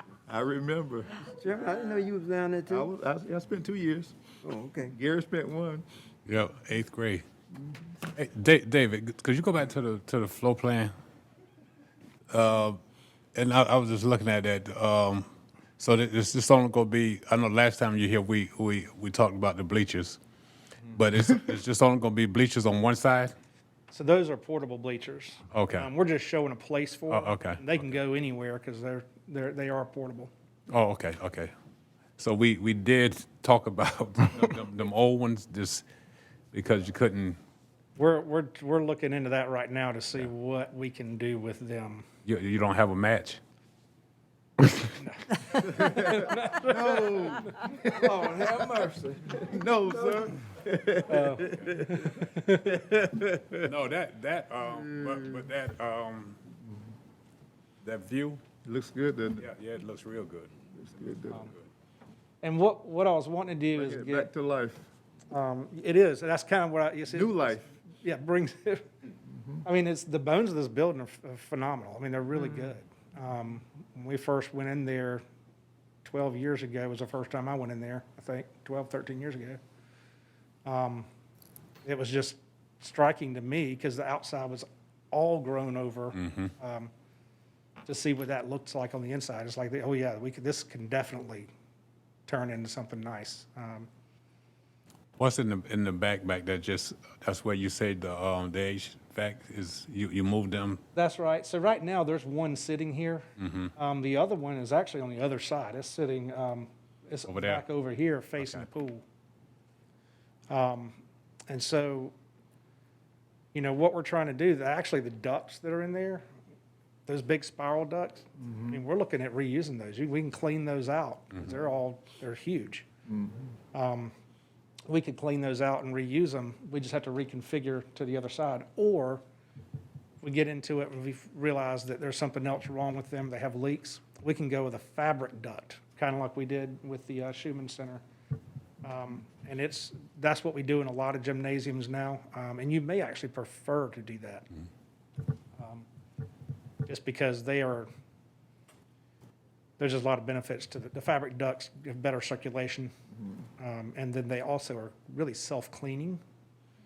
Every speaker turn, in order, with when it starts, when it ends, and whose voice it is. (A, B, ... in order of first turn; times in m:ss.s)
0:00.3-0:01.3 A
0:01.3-0:02.9 B
0:02.7-0:04.2 A
0:04.4-0:05.0 B
0:04.9-0:05.8 A
0:06.3-0:07.2 C
0:08.1-0:10.9 C
0:12.3-0:12.8 C
0:13.3-0:15.3 C
0:15.8-0:20.2 C
0:20.9-0:23.3 C
0:23.9-0:30.3 D
0:25.5-0:25.9 C
0:27.1-0:27.9 C
0:30.7-0:31.5 C
0:32.2-0:35.8 C
0:36.5-0:37.4 C
0:38.0-0:42.0 D
0:42.2-0:43.4 C
0:45.0-0:47.2 D
0:45.6-0:48.4 A
0:48.0-0:48.2 D
0:48.1-0:50.2 B
0:49.3-0:53.7 A
0:51.0-0:51.6 D
0:52.3-0:52.6 D
0:53.6-0:56.4 C
0:55.0-0:55.2 A
0:57.8-0:58.4 C
0:58.6-0:59.5 A
0:59.4-1:00.5 C
1:00.8-1:01.5 A
1:01.3-1:01.7 C
1:02.4-1:04.3 D
1:03.7-1:04.9 A
1:05.3-1:08.9 D
1:07.1-1:07.6 A
1:09.3-1:09.6 A
1:09.6-1:15.2 D
1:16.0-1:19.6 D
1:20.6-1:21.1 D
1:21.8-1:26.9 D
1:26.1-1:26.5 C
1:27.8-1:31.5 D
1:32.3-1:33.9 D
1:35.2-1:40.8 C
1:40.9-1:49.0 D
1:43.4-1:43.7 C
1:47.3-1:47.6 C
1:48.4-1:48.6 C
1:50.5-1:52.1 D
1:53.5-1:56.2 D
1:57.1-2:02.9 D
1:58.4-1:58.7 A
2:03.1-2:03.4 A
2:03.7-2:04.1 D
2:04.9-2:09.2 D
2:10.2-2:18.0 D
2:18.8-2:24.5 D
2:25.6-2:25.8 D
2:26.8-2:27.9 D
2:29.8-2:32.9 D
2:33.6-2:36.2 D